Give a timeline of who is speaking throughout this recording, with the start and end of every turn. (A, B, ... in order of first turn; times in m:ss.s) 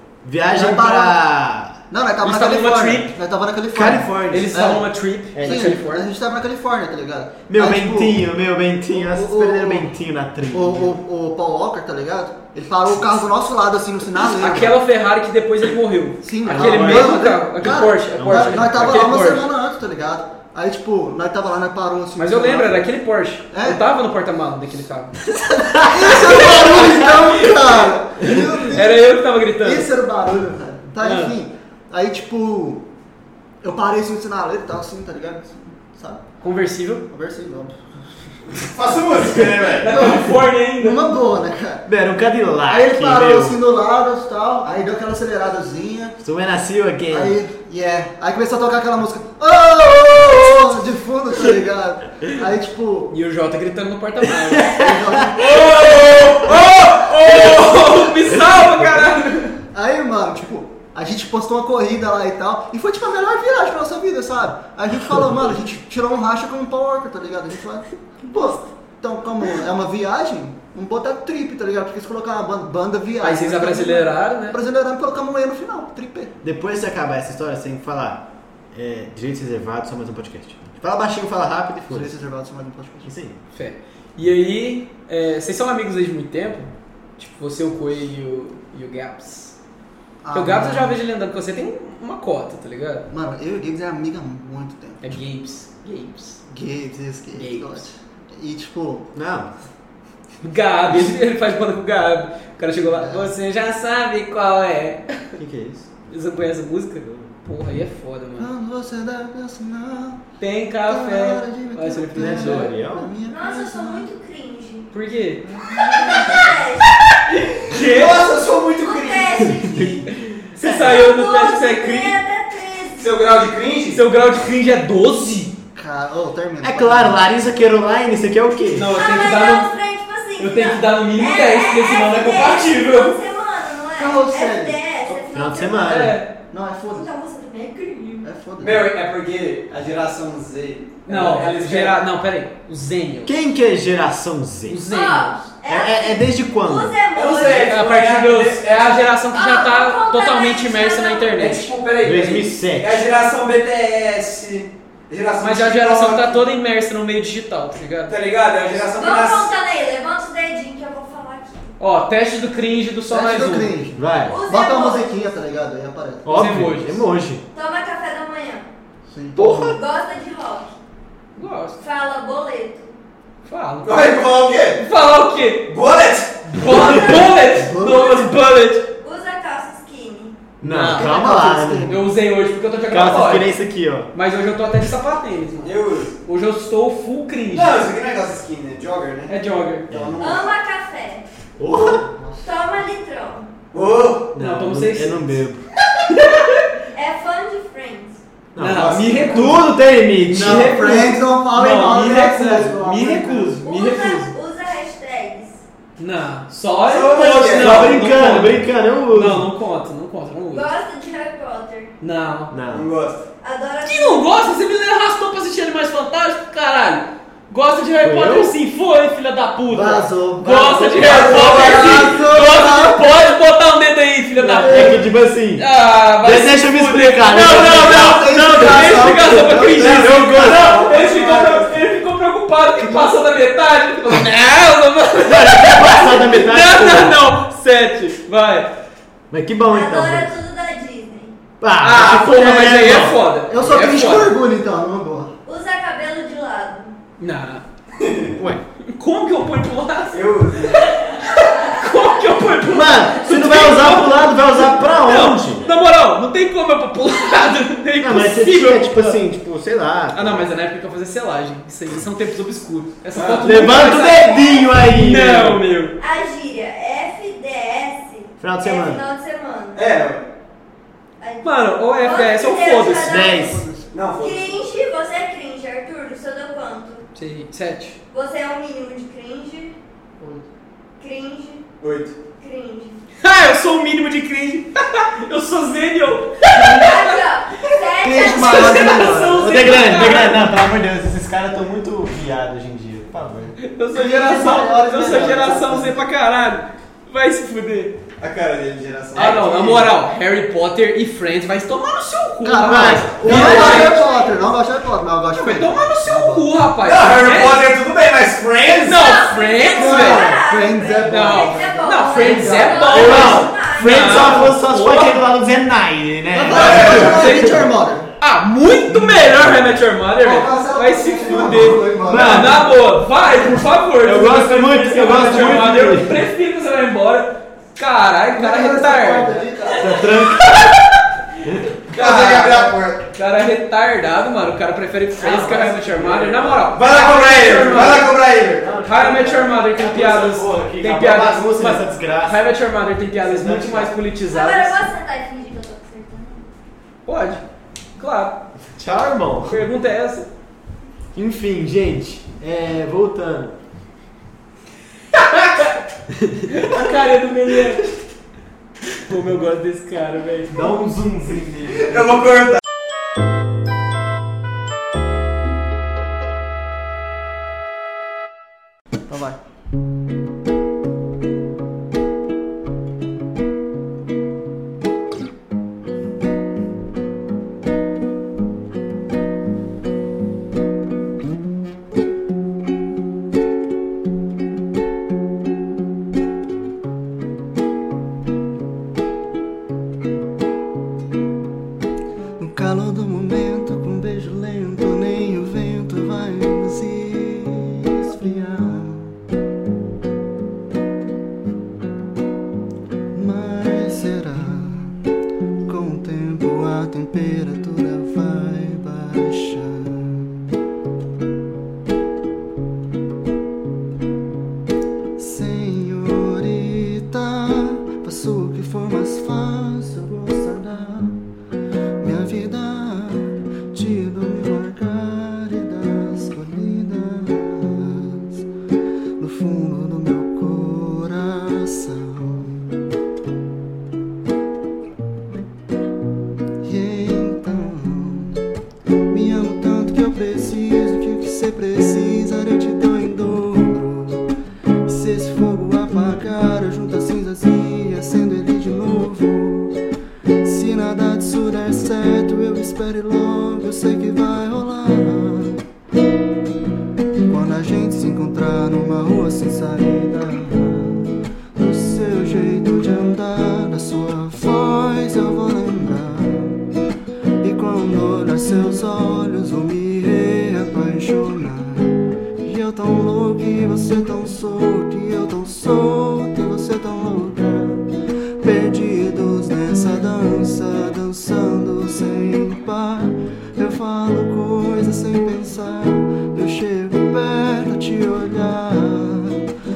0:00.2-0:01.8 A
0:00.4-0:01.2 B
0:01.9-0:04.9 B
0:02.2-0:03.1 C
0:03.7-0:04.7 A
0:04.3-0:06.1 C
0:05.3-0:05.8 A
0:05.4-0:08.2 B
0:07.5-0:11.0 A
0:08.9-0:09.9 B
0:10.5-0:14.8 B
0:14.3-0:19.5 C
0:16.2-0:22.8 B
0:16.5-0:19.2 A
0:22.2-0:25.1 C
0:23.5-0:23.8 B
0:25.4-0:27.1 A
0:25.8-0:32.8 B
0:26.0-0:29.9 C
0:31.0-0:31.3 C
0:33.6-0:36.2 B
0:36.4-0:37.0 C
0:37.1-0:37.8 B
0:38.6-0:40.0 D
0:39.6-0:41.0 C
0:39.9-0:41.9 B
0:41.8-0:43.6 A
0:42.7-0:46.2 B
0:46.2-0:47.4 A
0:47.1-0:53.1 B
0:53.1-0:59.6 C
0:54.4-0:55.3 A
0:54.6-0:56.1 B
0:58.6-0:58.9 A
0:59.6-1:16.3 B
1:13.2-1:14.6 C
1:16.4-1:22.2 A
1:21.9-1:23.1 B
1:23.0-1:23.4 A
1:23.5-1:29.5 C
1:30.2-1:31.0 B
1:30.3-1:33.1 C
1:33.1-1:35.0 B
1:35.0-1:36.4 C
1:36.5-1:39.1 B
1:37.3-1:37.8 C
1:39.1-1:39.5 A
1:40.4-1:45.4 C
1:42.8-1:43.3 B
1:45.4-1:45.9 A
1:46.1-1:48.5 C
1:47.0-1:47.3 A
1:48.4-1:50.2 B
1:50.4-1:52.8 C
1:50.8-1:54.0 B
1:52.1-1:53.1 A
1:53.3-1:54.9 E
1:54.9-1:55.5 C
1:55.4-1:56.6 B
1:55.9-1:56.9 E
1:57.3-1:59.7 D
1:57.4-1:58.3 C
1:58.7-1:59.9 E
1:59.4-2:01.0 A
2:00.1-2:02.2 C
2:00.7-2:03.1 E
2:02.9-2:04.0 D
2:03.9-2:05.6 C
2:05.7-2:07.2 B
2:06.6-2:08.9 A
2:08.7-2:09.7 C
2:08.9-2:16.0 E
2:10.4-2:13.2 C
2:14.0-2:15.2 B
2:15.3-2:16.2 A
2:15.8-2:16.3 C
2:16.5-2:17.1 B
2:16.9-2:18.3 E
2:18.2-2:18.9 B
2:18.6-2:22.0 D
2:21.0-2:23.3 C
2:23.2-2:24.8 A
2:24.7-2:25.5 C
2:24.9-2:27.7 E
2:25.6-2:27.0 A
2:27.1-2:29.0 D
2:27.5-2:31.7 C
2:29.3-2:31.5 E
2:31.3-2:36.4 D
2:32.0-2:33.0 A
2:35.4-2:38.1 C
2:38.1-2:39.5 D
2:38.9-2:41.7 E
2:41.8-2:43.9 C
2:43.1-2:46.4 B
2:44.0-2:44.4 A
2:44.2-2:45.1 E
2:46.2-2:47.4 A
2:46.3-2:47.0 C
2:47.5-2:48.7 E
2:49.1-2:49.8 B
2:49.4-2:49.8 A
2:49.7-2:50.7 E
2:51.4-2:51.8 C
2:51.8-2:53.0 E
2:53.4-2:54.2 C
2:53.8-2:54.8 D
2:54.8-2:55.8 C
2:55.7-2:56.6 D
2:56.5-2:58.8 C
2:57.1-2:58.2 B
2:59.0-3:00.4 E
3:00.6-3:01.3 C
3:00.6-3:02.0 A
3:00.9-3:02.1 B
3:01.9-3:03.5 C
3:02.9-3:04.1 A
3:04.1-3:07.8 C
3:05.6-3:06.1 D
3:07.5-3:09.3 D
3:09.3-3:09.9 C
3:09.9-3:10.5 D
3:09.9-3:10.2 A
3:10.2-3:11.2 E
3:11.6-3:12.0 A
3:11.8-3:12.4 B
3:12.4-3:13.5 E
3:13.7-3:14.3 D
3:14.3-3:15.6 A
3:14.4-3:15.4 C
3:16.1-3:16.6 C
3:16.9-3:18.2 E
3:18.5-3:20.9 A
3:18.6-3:19.7 C
3:18.6-3:19.6 D
3:20.2-3:23.6 B
3:20.4-3:21.2 D
3:21.5-3:24.3 C
3:21.8-3:22.8 D
3:23.6-3:25.6 E
3:26.0-3:30.7 C
3:26.8-3:28.0 D
3:27.4-3:29.4 A
3:30.5-3:31.9 E
3:32.0-3:32.5 C
3:32.5-3:32.9 A
3:32.7-3:33.2 D
3:33.4-3:34.4 E
3:33.8-3:45.0 C
3:38.0-3:38.5 A
3:39.7-3:43.0 B
3:41.0-3:42.2 D
3:41.1-3:41.6 A
3:44.4-3:45.0 B
3:44.6-3:45.6 A
3:45.5-3:58.7 C
3:46.2-3:50.9 A
3:47.6-3:50.2 B
3:49.9-3:51.8 D
3:52.8-3:53.1 B
3:55.2-3:57.3 A
3:59.3-4:00.4 A
3:59.7-4:01.3 E
4:01.6-4:03.2 A
4:01.8-4:04.4 C
4:03.5-4:05.3 B
4:05.4-4:07.0 E
4:07.2-4:07.6 C
4:08.0-4:08.4 D
4:08.4-4:08.6 A
4:08.8-4:19.2 C
4:10.1-4:10.9 D
4:11.3-4:11.8 E
4:12.6-4:15.6 A
4:18.0-4:20.4 A
4:20.1-4:26.0 C
4:23.1-4:23.5 D
4:23.4-4:25.6 A
4:24.1-4:24.7 E
4:26.0-4:29.8 E
4:28.4-4:29.0 A
4:29.7-4:30.2 D
4:31.2-4:33.4 E
4:31.4-4:33.1 C
4:33.0-4:33.6 A
4:33.2-4:33.9 B
4:33.9-4:34.6 D
4:34.2-4:37.0 E
4:37.1-4:38.0 C
4:38.1-4:39.7 E
4:41.0-4:41.6 E
4:41.8-4:42.2 D
4:42.4-4:43.0 E
4:43.2-4:47.2 C
4:46.5-4:49.1 E
4:48.0-4:49.7 B
4:48.1-4:50.4 C
4:49.2-4:53.5 A
4:53.6-4:58.0 C
4:53.9-4:56.0 B
4:58.2-4:59.9 D
4:59.1-5:04.0 C
5:02.4-5:06.5 B
5:02.6-5:03.9 A
5:03.3-5:04.6 E
5:05.3-5:07.8 C
5:06.8-5:09.1 D
5:08.8-5:10.3 C
5:08.9-5:14.4 E
5:09.7-5:13.3 B
5:11.1-5:15.2 C
5:12.9-5:17.7 A
5:16.3-5:18.1 B
5:16.5-5:17.3 D
5:16.5-5:17.7 C
5:18.2-5:29.4 C
5:20.2-5:22.6 B
5:22.0-5:22.7 A
5:24.0-5:26.2 A
5:28.3-5:30.1 B
5:29.8-5:30.6 A
5:30.0-5:31.0 C
5:31.8-5:38.1 C
5:31.9-5:33.0 D
5:35.2-5:36.8 A
5:36.7-5:38.7 D
5:37.7-5:42.4 A
5:38.8-5:44.8 C
5:43.2-5:43.9 A
5:44.2-5:46.4 E
5:47.0-5:47.4 C
5:48.0-5:48.4 C
5:48.8-5:49.6 A
5:49.4-5:50.3 C
5:51.1-5:53.6 A
5:55.1-5:55.8 C
5:56.4-5:57.9 C
5:58.9-6:00.6 C
6:00.5-6:02.4 A
6:09.1-6:09.4 B
6:32.4-6:39.1 B
6:43.1-6:45.0 B
6:45.6-6:50.3 B
6:55.2-7:01.2 B
7:02.0-7:08.4 B
7:09.2-7:12.6 B
7:16.6-7:18.4 B
7:19.1-7:24.3 B
7:24.8-7:29.8 B
7:30.4-7:35.6 B
7:37.3-7:46.6 B
7:47.4-7:57.9 B
7:58.4-8:09.5 B